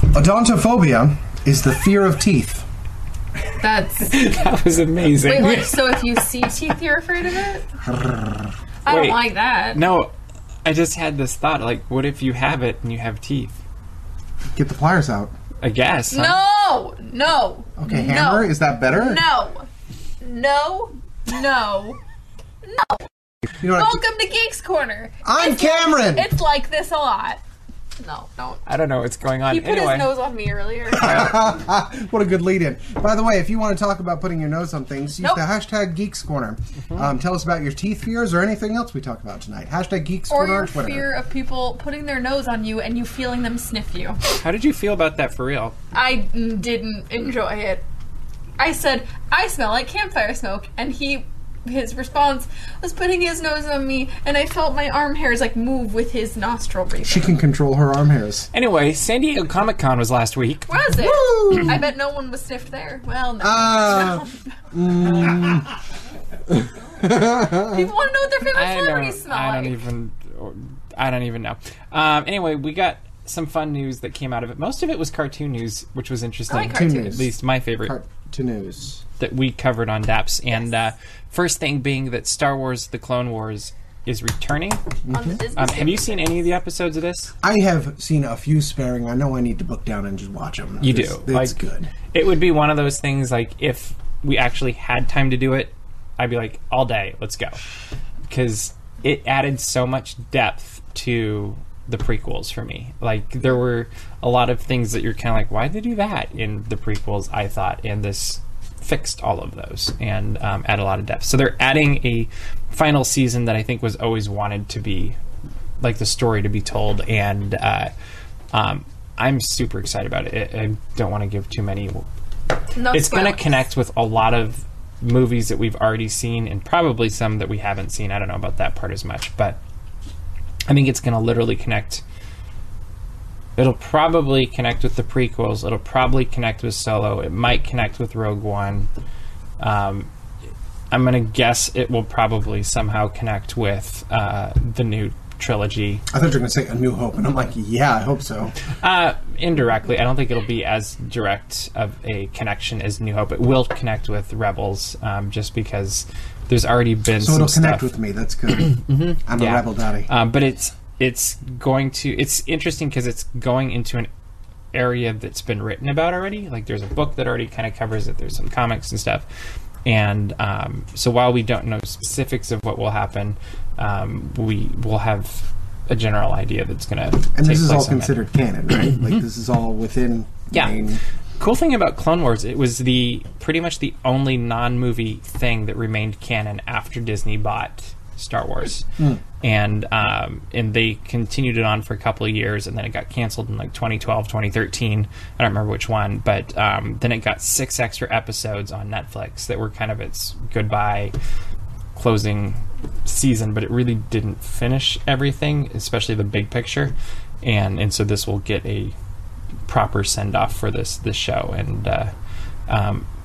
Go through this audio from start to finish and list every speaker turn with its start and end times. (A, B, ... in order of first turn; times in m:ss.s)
0:00.1-0:02.7 A
0:03.6-0:04.4 B
0:04.1-0:05.9 C
0:05.2-0:07.6 B
0:08.8-0:09.8 B
0:08.9-0:10.1 C
0:10.6-0:13.6 C
0:14.6-0:15.3 A
0:15.6-0:16.4 C
0:16.1-0:19.7 B
0:17.8-0:19.2 A
0:20.2-0:22.0 B
0:22.6-0:23.1 B
0:23.6-0:24.0 A
0:23.7-0:27.4 B
0:25.2-0:26.3 A
0:28.0-0:28.6 B
0:28.7-0:30.1 C
0:29.5-0:31.5 B
0:30.9-0:41.1 A
0:31.0-0:31.4 C
0:40.3-0:44.2 B
0:44.3-0:45.8 C
0:45.9-0:47.8 B
0:48.6-0:57.4 B
0:57.0-0:58.5 A
0:58.5-1:00.7 C
1:00.7-1:04.6 B
1:01.0-1:01.8 A
1:03.4-1:05.7 A
1:06.5-1:07.9 A
1:07.5-1:09.8 B
1:08.5-1:18.0 C
1:16.5-1:17.2 B
1:16.6-1:17.3 A
1:17.8-1:19.0 A
1:19.2-1:24.8 C
1:25.1-1:25.4 A
1:25.1-1:26.2 B
1:25.6-1:27.3 C
1:27.4-1:31.9 A
1:30.8-1:31.6 C
1:32.1-1:37.6 C
1:38.3-1:55.2 C
1:55.8-1:57.9 C
1:58.5-2:02.1 C
2:02.8-2:03.6 B
2:02.9-2:09.6 C
2:10.7-2:12.0 C
2:13.6-2:18.9 C
2:19.6-2:20.1 C
2:20.9-2:26.0 C
2:26.1-2:28.6 A
2:28.8-2:37.9 C
2:37.2-2:40.1 A
2:38.6-2:44.1 C
2:44.7-2:49.3 C
2:49.8-2:58.2 C
2:57.4-3:01.0 A
3:01.4-3:08.9 C
3:09.4-3:21.1 C
3:22.0-3:28.9 C
3:29.7-3:32.1 C
3:32.7-3:33.1 C